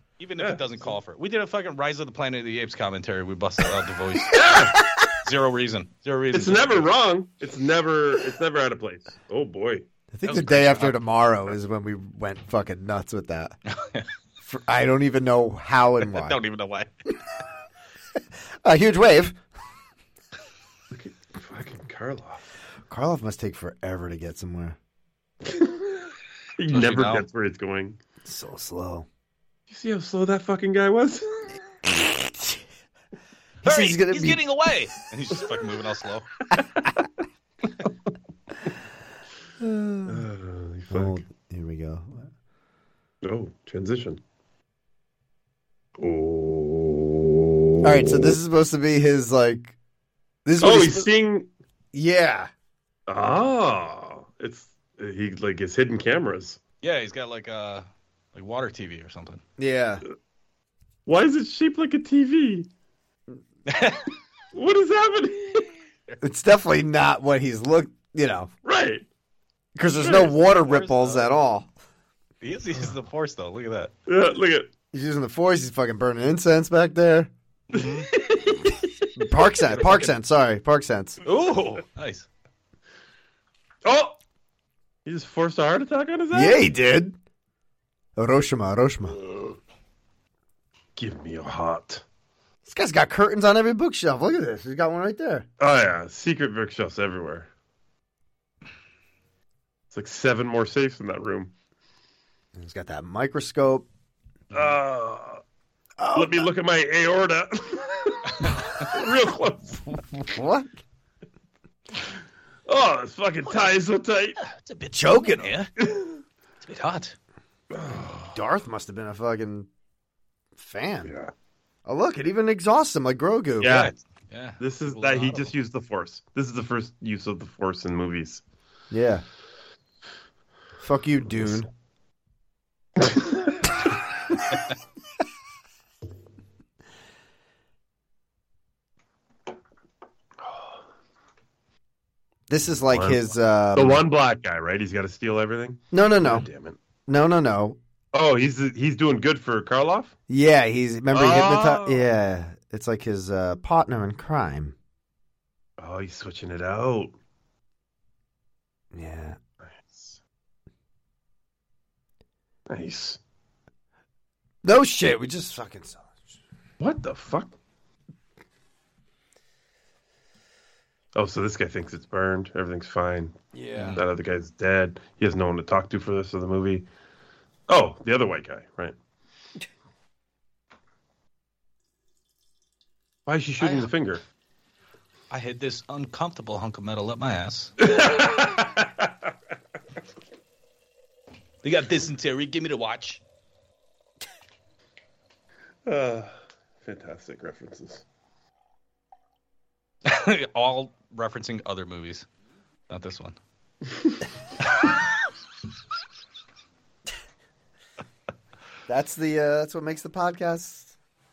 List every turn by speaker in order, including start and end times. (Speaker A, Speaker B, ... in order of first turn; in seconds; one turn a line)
Speaker A: 0.2-6.9
Speaker B: 4.3-4.8
Speaker B: 6.3-9.9
Speaker C: 10.1-13.6
Speaker A: 10.2-11.0
Speaker A: 13.7-14.1
Speaker C: 14.4-16.4
Speaker A: 16.1-16.9
Speaker C: 18.6-19.4
Speaker B: 20.9-22.4
Speaker C: 22.9-24.8
Speaker B: 25.4-28.0
Speaker A: 26.7-27.3
Speaker C: 28.2-29.1
Speaker B: 29.7-31.5
Speaker C: 31.9-32.6
Speaker C: 33.6-34.4
Speaker A: 33.6-36.3
Speaker C: 39.6-40.3
Speaker B: 40.1-41.2
Speaker C: 40.9-42.3
Speaker B: 43.2-44.2
Speaker B: 46.0-48.3
Speaker C: 47.8-49.8
Speaker C: 50.5-51.1
Speaker B: 50.6-51.5
Speaker C: 51.9-52.5
Speaker B: 53.1-56.6
Speaker A: 56.8-59.4
Speaker C: 59.6-60.0
Speaker B: 61.1-62.7
Speaker A: 63.7-64.1
Speaker B: 64.5-65.7
Speaker C: 66.2-68.5
Speaker B: 68.6-69.1
Speaker C: 69.8-71.7
Speaker A: 70.0-71.3
Speaker A: 72.4-73.9
Speaker B: 74.1-74.7
Speaker C: 74.9-77.3
Speaker A: 77.7-78.1
Speaker B: 77.7-79.1
Speaker C: 79.2-81.2
Speaker A: 79.7-80.1
Speaker A: 81.2-82.3
Speaker B: 83.8-84.2
Speaker B: 85.1-86.6
Speaker C: 86.3-87.2
Speaker C: 88.2-89.2
Speaker B: 91.0-92.0
Speaker C: 92.7-95.5
Speaker B: 95.6-97.5
Speaker B: 99.9-101.5
Speaker C: 102.5-103.9
Speaker B: 104.5-105.4
Speaker C: 106.0-106.5
Speaker B: 106.1-109.9
Speaker C: 109.9-110.8
Speaker B: 112.7-114.4
Speaker A: 114.4-115.7
Speaker C: 114.9-115.5
Speaker B: 115.8-116.2
Speaker A: 116.6-117.2
Speaker B: 117.7-118.3
Speaker C: 118.3-119.7
Speaker C: 120.6-121.1
Speaker B: 121.0-121.3
Speaker C: 121.9-123.9
Speaker B: 123.6-123.9
Speaker A: 123.6-125.5
Speaker B: 124.6-128.4
Speaker C: 128.9-129.2
Speaker C: 130.8-131.7
Speaker B: 140.4-140.8
Speaker C: 142.5-144.0
Speaker B: 142.9-146.8
Speaker C: 145.9-146.5
Speaker C: 147.1-147.8
Speaker B: 148.1-150.1
Speaker C: 150.3-154.7
Speaker B: 151.1-152.1
Speaker B: 155.8-157.1
Speaker C: 158.9-159.4
Speaker B: 159.6-160.2
Speaker B: 162.7-163.2
Speaker C: 164.6-166.3
Speaker B: 166.8-167.5
Speaker B: 171.1-173.4
Speaker C: 173.5-174.0
Speaker A: 173.7-174.0
Speaker B: 173.9-176.9
Speaker B: 177.7-178.9
Speaker B: 183.3-184.2
Speaker A: 183.6-183.9
Speaker A: 185.3-187.7
Speaker B: 187.8-189.1
Speaker A: 191.6-193.2
Speaker B: 195.9-198.0
Speaker A: 200.1-202.3
Speaker A: 202.9-203.4
Speaker C: 208.9-210.9